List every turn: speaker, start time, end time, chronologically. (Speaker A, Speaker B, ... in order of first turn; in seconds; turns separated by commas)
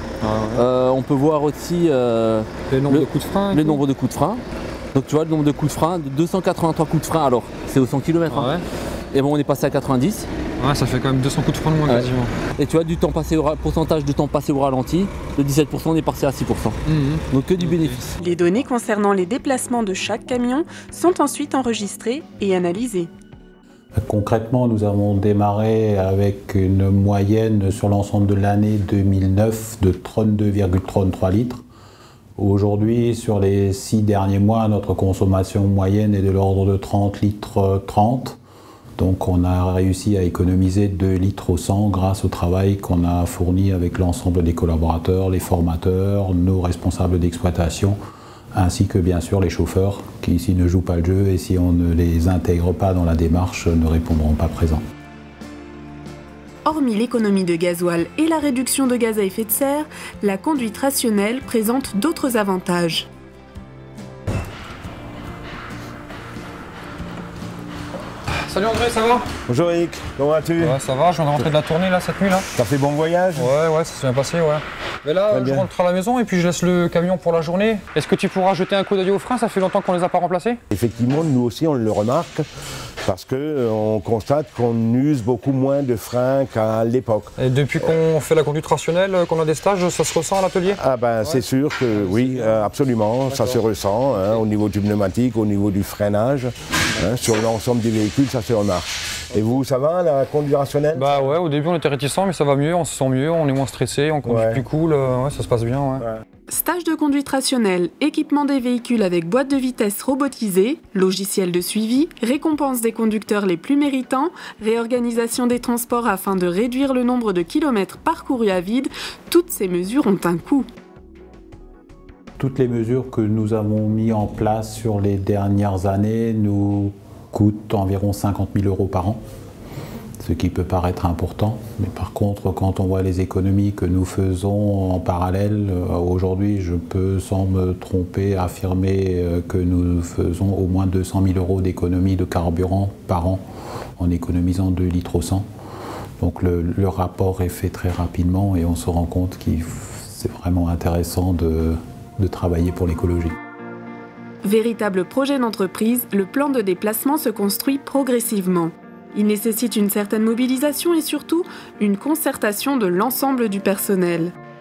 Speaker A: 0.2-0.6, Speaker B: 0.6-4.4, Speaker A: 2.7-3.8, Speaker B: 4.9-8.5, Speaker A: 8.3-8.6, Speaker B: 9.1-10.3, Speaker A: 10.6-12.3, Speaker B: 11.9-16.8, Speaker A: 16.9-18.0, Speaker B: 17.3-21.5, Speaker C: 18.2-23.1, Speaker D: 24.0-31.6, Speaker D: 32.4-38.4, Speaker D: 39.0-48.0, Speaker D: 48.5-54.8, Speaker C: 56.6-63.0, Speaker A: 68.5-69.3, Speaker E: 69.5-70.8, Speaker A: 70.6-72.5, Speaker E: 72.5-73.5, Speaker A: 73.3-80.6, Speaker E: 75.3-75.7, Speaker E: 80.7-82.4, Speaker E: 83.0-87.3, Speaker A: 87.4-91.4, Speaker E: 90.7-101.2, Speaker A: 91.9-92.7, Speaker A: 93.3-93.6, Speaker A: 100.9-106.0, Speaker E: 104.2-104.6, Speaker C: 106.5-120.7, Speaker B: 111.8-112.5, Speaker B: 114.0-114.9, Speaker B: 115.5-115.9, Speaker B: 117.9-118.1, Speaker D: 122.4-129.2, Speaker D: 130.2-143.4, Speaker D: 144.0-145.4, Speaker D: 146.2-153.3, Speaker C: 154.4-164.3